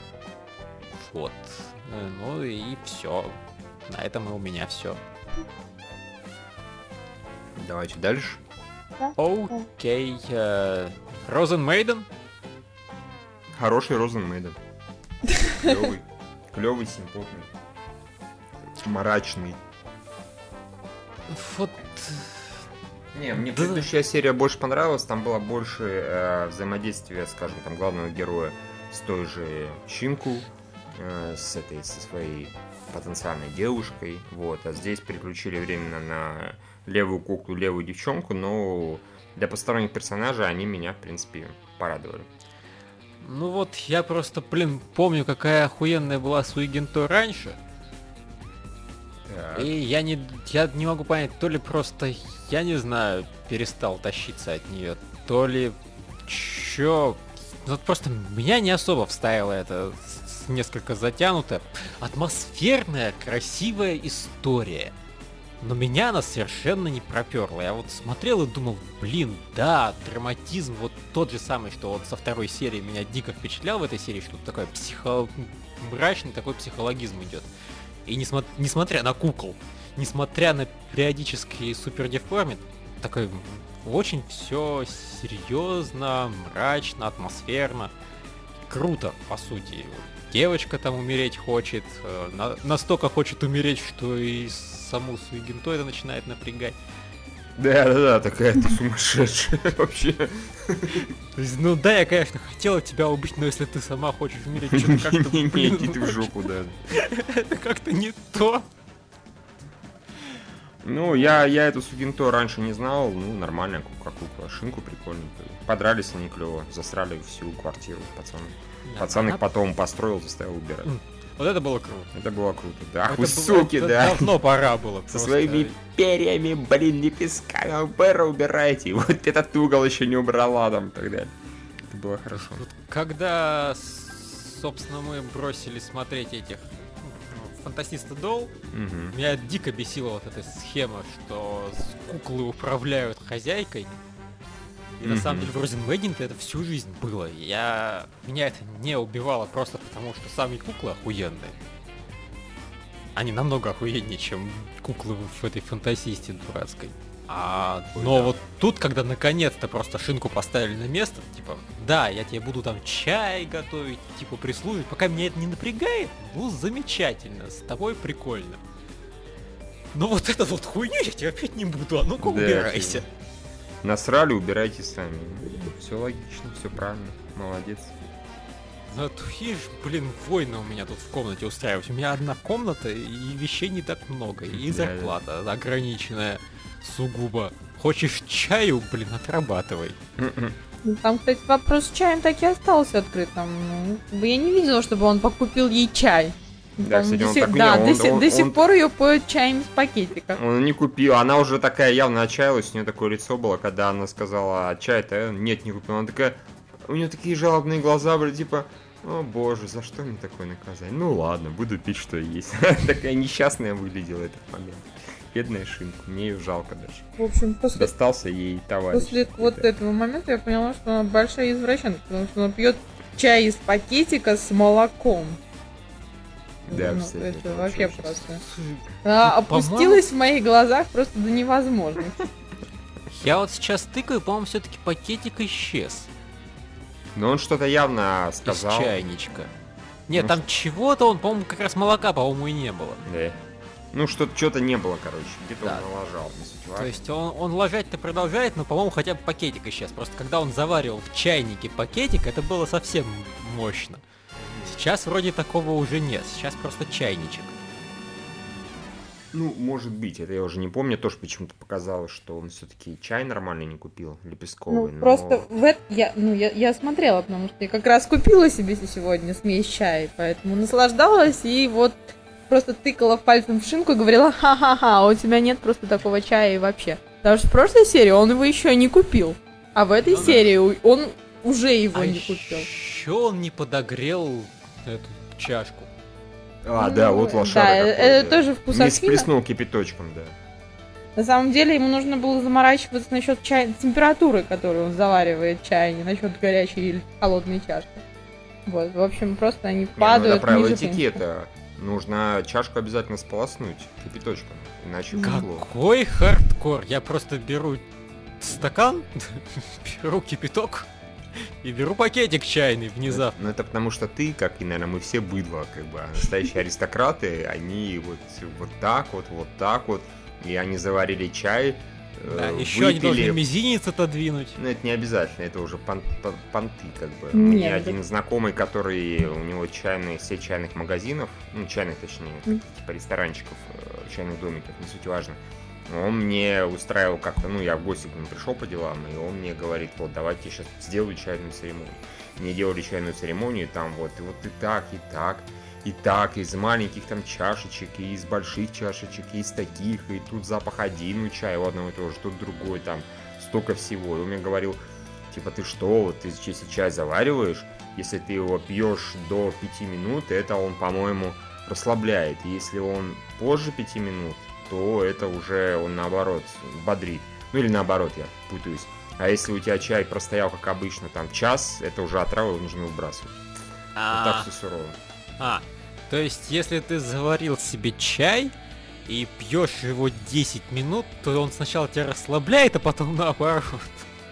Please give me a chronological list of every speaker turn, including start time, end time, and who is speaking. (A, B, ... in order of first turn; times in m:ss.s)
0:01.0-0:03.4 A
0:03.9-0:05.0 A
0:07.6-0:08.4 B
0:09.2-0:12.1 A
0:13.5-0:14.6 B
0:15.3-0:15.8 C
0:15.5-0:17.5 B
0:18.8-0:19.6 B
0:21.3-0:22.5 A
0:23.1-0:42.3 B
0:23.4-0:23.8 A
0:43.2-0:47.6 A
0:49.3-0:49.7 B
0:49.6-1:04.9 A
1:05.6-1:17.5 A
1:18.1-1:27.9 A
1:28.7-1:36.8 A
1:37.6-1:41.1 B
1:41.4-1:48.7 A
1:44.6-1:46.9 B
1:50.8-2:00.9 B
1:58.9-1:59.4 A
2:00.8-2:02.1 A
2:02.1-2:04.3 B
2:03.1-2:05.7 A
2:05.1-2:11.3 B
2:11.9-2:12.6 B
2:12.3-2:18.6 A
2:18.7-2:19.2 B
2:19.1-2:23.9 A
2:25.0-2:31.6 A
2:25.0-2:25.5 B
2:33.2-2:48.6 A
2:37.9-2:38.4 B
2:49.9-2:53.1 A
2:52.2-2:53.1 B
2:53.8-2:58.0 B
2:58.9-3:10.0 A
3:04.5-3:05.2 B
3:10.2-3:10.6 B
3:10.8-3:20.4 C
3:16.8-3:18.6 B
3:20.4-3:37.1 B
3:37.2-3:37.9 C
3:37.7-3:39.7 B
3:38.9-3:45.4 C
3:46.7-3:48.3 B
3:46.7-3:48.4 C
3:48.5-3:50.1 A
3:49.0-3:52.3 C
3:53.1-3:56.1 A
3:57.2-3:59.0 B
3:58.5-3:59.5 A
4:00.1-4:03.0 A
4:00.1-4:00.4 B
4:03.0-4:03.4 B
4:03.9-4:07.0 B
4:06.8-4:14.0 A
4:14.6-4:17.6 A
4:19.3-4:25.5 B
4:24.7-4:42.7 C
4:40.0-4:40.4 A
4:41.9-4:45.9 A
4:46.6-4:50.4 B
4:46.8-4:49.3 C
4:51.2-4:58.0 C
4:58.7-5:01.2 C
5:00.0-5:05.7 B
5:05.2-5:07.8 A
5:08.4-5:13.4 A
5:13.1-5:23.4 B
5:22.3-5:24.6 A
5:24.6-5:54.8 B
5:27.3-5:28.0 C
5:55.3-6:13.4 B
6:14.0-6:14.5 A
6:14.1-6:15.0 B
6:15.4-6:18.6 A
6:19.1-6:24.1 A